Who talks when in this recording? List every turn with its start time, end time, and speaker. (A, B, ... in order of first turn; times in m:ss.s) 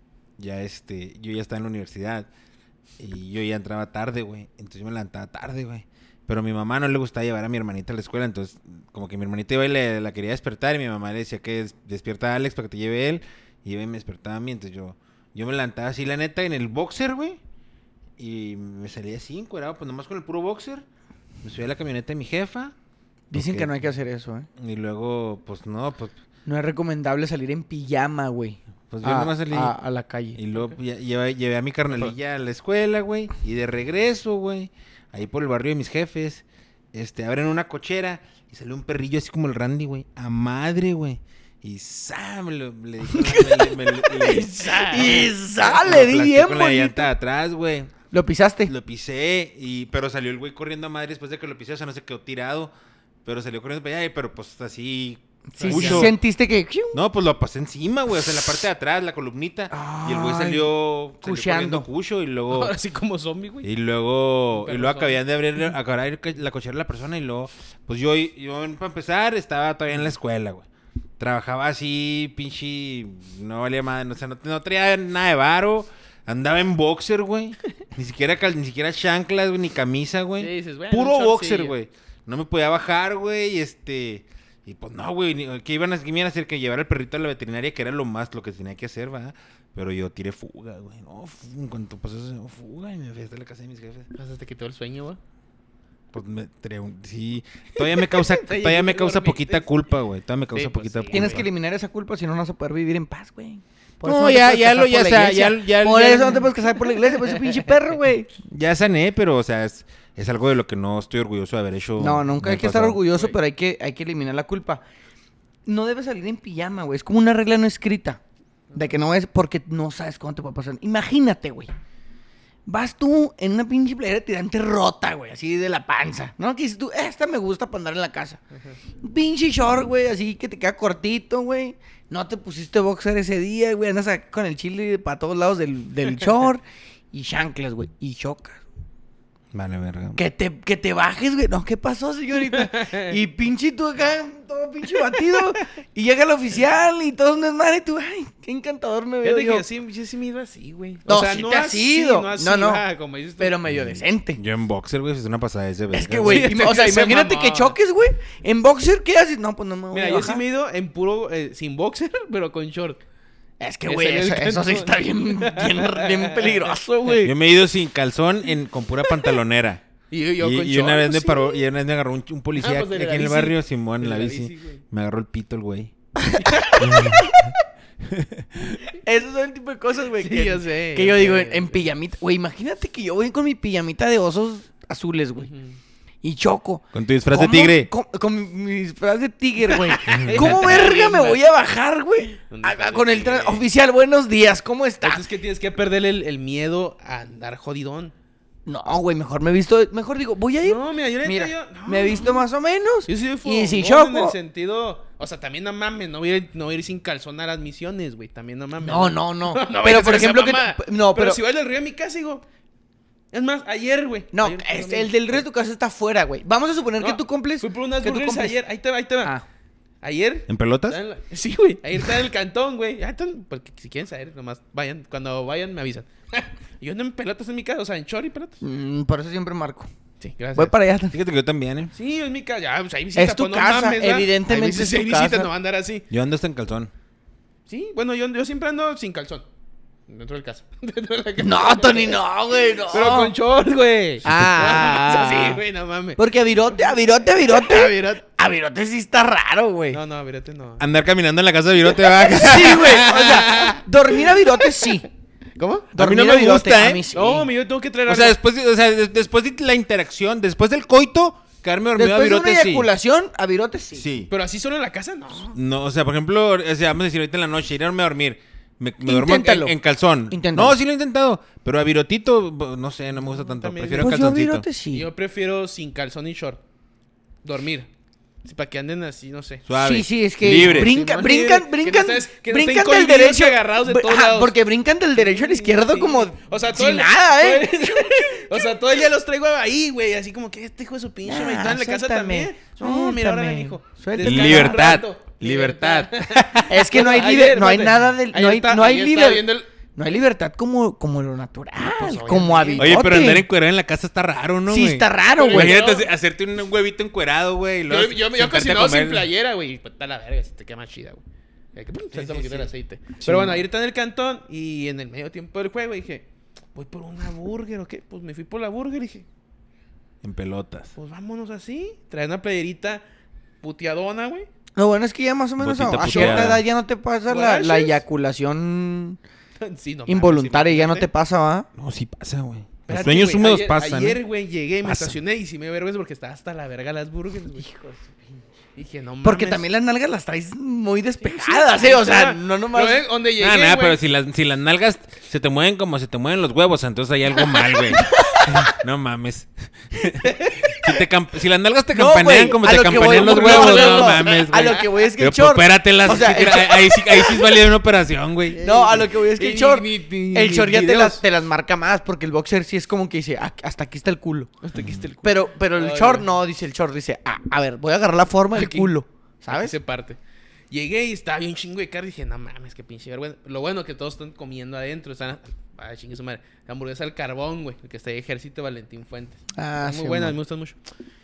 0:00.4-0:02.3 A
0:03.0-0:17.4 A
0:18.2-0:20.8 A
0:21.4-0:22.7 A
0:23.3-0:24.5 B
0:23.3-0:23.8 A
0:24.6-0:26.2 A
0:26.4-0:30.4 B
0:28.9-0:29.7 A
0:30.3-0:47.9 A
0:43.1-0:47.1 B
0:44.2-0:45.3 C
0:48.1-0:48.7 B
0:48.7-0:52.7 A
0:53.2-0:56.2 A
0:55.6-0:57.0 B
0:55.6-0:56.1 C
0:56.9-1:02.7 A
0:59.7-1:01.8 B
1:02.5-1:03.7 C
1:03.6-1:10.7 A
1:04.5-1:05.2 C
1:11.2-1:34.1 A
1:20.4-1:21.8 C
1:34.1-1:35.2 C
1:36.1-1:41.5 A
1:37.8-1:39.7 C
1:40.5-1:41.4 C
1:41.1-1:48.3 B
1:44.0-1:46.5 A
1:47.1-1:47.6 C
1:48.4-1:53.0 A
1:52.0-1:54.8 B
1:53.1-1:53.4 C
1:55.6-1:58.2 B
1:58.7-1:59.0 C
1:58.7-2:01.7 B
2:02.6-2:08.4 B
2:09.0-2:18.6 B
2:19.5-2:20.2 A
2:20.2-2:29.6 B
2:22.4-2:23.1 C
2:29.2-2:33.6 C
2:31.1-2:32.8 B
2:33.4-2:34.4 B
2:33.7-2:36.5 A
2:35.9-2:40.4 B
2:36.2-2:37.7 C
2:39.9-2:43.0 C
2:43.6-2:47.3 B
2:43.8-2:47.2 C
2:47.2-2:49.8 A
2:50.1-2:51.6 C
2:50.4-2:55.9 A
2:52.6-2:54.8 C
2:56.3-2:57.2 B
2:56.4-2:57.1 C
2:56.8-2:57.5 A
2:58.0-2:58.8 A
2:58.9-3:05.5 B
3:00.2-3:01.9 C
3:05.4-3:05.8 C
3:06.2-3:15.2 B
3:06.9-3:07.9 A
3:09.7-3:11.4 C
3:10.1-3:10.7 A
3:12.5-3:13.6 C
3:15.0-3:18.1 C
3:18.6-3:24.4 B
3:20.6-3:22.4 C
3:23.0-3:32.4 C
3:28.8-3:31.4 B
3:33.3-3:35.4 C
3:34.3-3:38.6 B
3:37.0-3:39.3 C
3:40.0-3:48.6 C
3:40.5-3:41.0 A
3:48.6-3:49.9 B
3:50.2-3:50.7 C
3:50.6-3:51.2 B
3:51.1-3:51.9 A
3:51.9-3:56.0 C
3:53.1-3:55.5 B
3:56.1-3:56.9 A
3:57.7-3:59.4 C
4:00.1-4:02.2 C
4:01.4-4:03.3 B
4:02.9-4:08.2 C
4:04.2-4:05.6 B
4:06.2-4:10.0 B
4:09.9-4:10.8 C
4:10.8-4:13.8 A
4:12.0-4:15.0 C
4:12.3-4:15.1 B
4:15.6-4:15.9 C
4:15.9-4:17.5 B
4:16.0-4:17.1 A
4:17.1-4:18.4 C
4:18.0-4:22.9 A
4:22.0-4:24.0 B
4:23.9-4:24.3 A
4:24.3-4:25.6 C
4:25.5-4:34.6 A
4:29.0-4:29.7 B
4:30.3-4:30.8 B
4:33.4-4:34.2 C
4:34.0-4:35.1 B
4:34.9-4:36.6 C
4:37.4-4:37.9 C
4:38.4-4:39.6 C
4:39.6-4:40.9 A
4:39.7-4:48.7 B
4:40.4-4:44.5 C
4:45.1-4:59.7 C
4:51.2-4:54.8 B
4:54.2-4:56.7 A
4:56.7-5:03.4 B
5:01.9-5:03.1 C
5:02.8-5:09.3 A
5:04.7-5:05.8 B
5:05.4-5:06.1 C
5:07.9-5:11.2 C
5:11.7-5:19.2 C
5:12.1-5:12.7 A
5:13.2-5:13.5 B
5:20.2-5:20.9 A
5:20.9-5:23.0 C
5:23.6-5:24.5 C
5:24.8-5:29.2 B
5:25.6-5:26.6 A
5:26.0-5:26.6 C
5:27.3-5:28.0 C
5:29.6-5:31.1 C
5:30.1-5:31.7 B
5:31.8-5:34.2 A
5:32.9-5:37.6 C
5:34.8-5:35.2 A
5:37.6-5:38.1 B
5:38.8-5:39.6 C
5:39.2-5:43.0 B
5:41.2-5:44.0 C
5:43.4-5:58.6 A
5:47.9-5:48.7 B
5:51.9-5:57.4 B
5:52.9-5:54.9 C
5:58.5-6:01.2 C
5:58.6-6:04.5 B
6:04.6-6:06.3 C
6:04.7-6:05.0 A
6:05.2-6:09.7 B
6:08.5-6:08.9 C
6:09.5-6:10.2 C
6:10.7-6:20.8 C
6:19.5-6:20.4 B